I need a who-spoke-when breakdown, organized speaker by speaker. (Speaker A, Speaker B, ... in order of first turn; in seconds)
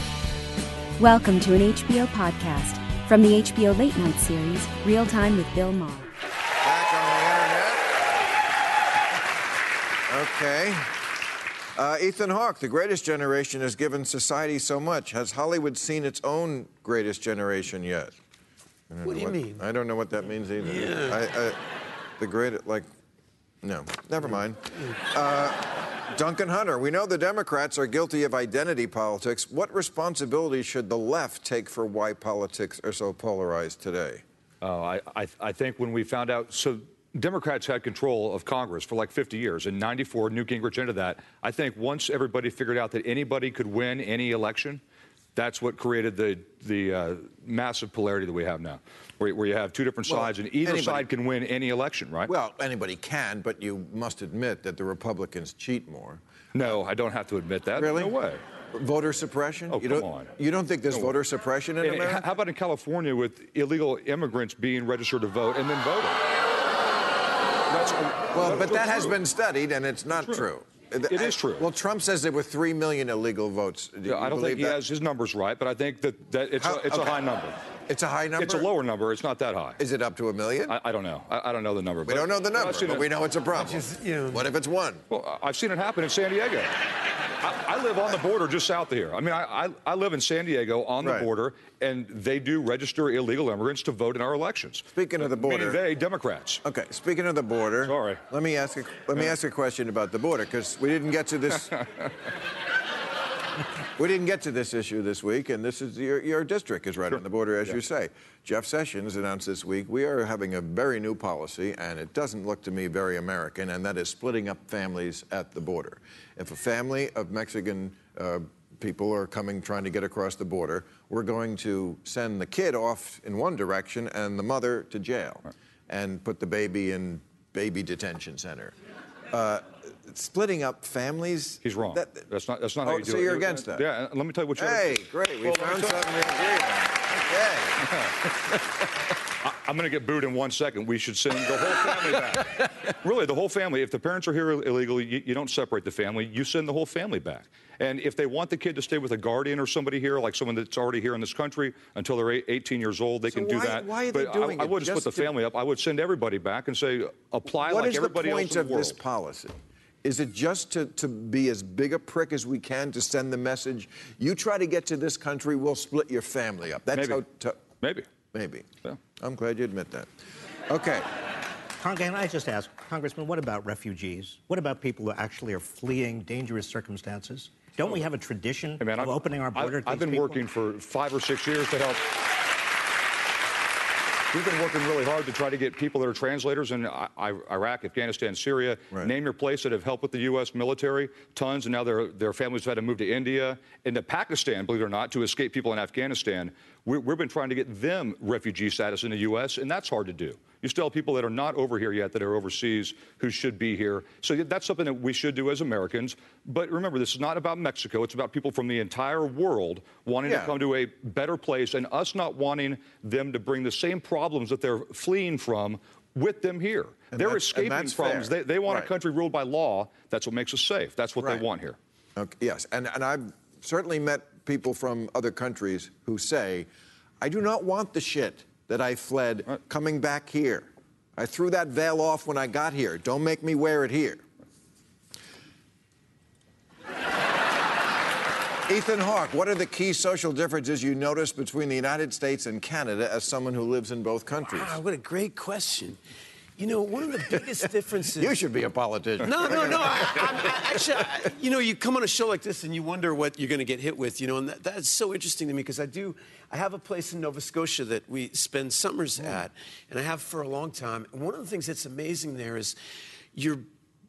Speaker A: 1.0-6.1
Speaker B: 6.6-7.9, 10.1-10.8, 11.8-18.1, 18.9-21.6, 22.2-22.9, 23.6-34.2, 50.1-51.1, 52.3-56.2, 57.8-58.2, 58.7-62.3, 68.3-74.8, 76.6-77.2, 77.9-78.7, 79.8-80.8, 82.1-85.0, 91.0-91.3, 95.0-95.8, 96.6-101.9, 104.0-128.8, 129.3-132.3, 132.8-133.8, 134.6-137.8, 153.3-155.3, 157.5-167.6, 168.3-168.7, 169.2-170.1, 170.7-171.1, 210.2-210.6, 217.1-218.9, 222.2-226.7, 227.2-234.2, 238.7-244.8, 248.2-250.3
Speaker C: 19.0-19.6, 20.6-21.2, 24.3-24.9, 83.5-84.5, 244.5-246.0, 246.6-248.4, 249.2-262.8, 263.3-263.6
Speaker D: 34.6-44.8, 45.4-52.3, 56.5-58.4, 59.7-60.3, 60.9-61.2, 61.8-66.2, 67.7-69.2, 70.2-70.5, 71.1-71.7, 74.1-77.6, 78.4-79.8, 80.7-83.1, 85.1-86.7, 87.4-96.6, 97.8-98.2, 107.1-107.8, 131.6-136.0, 137.8-138.2, 139.4-159.0, 166.9-167.2, 167.8-168.1, 178.8-182.0, 184.3-221.8
Speaker E: 171.8-180.4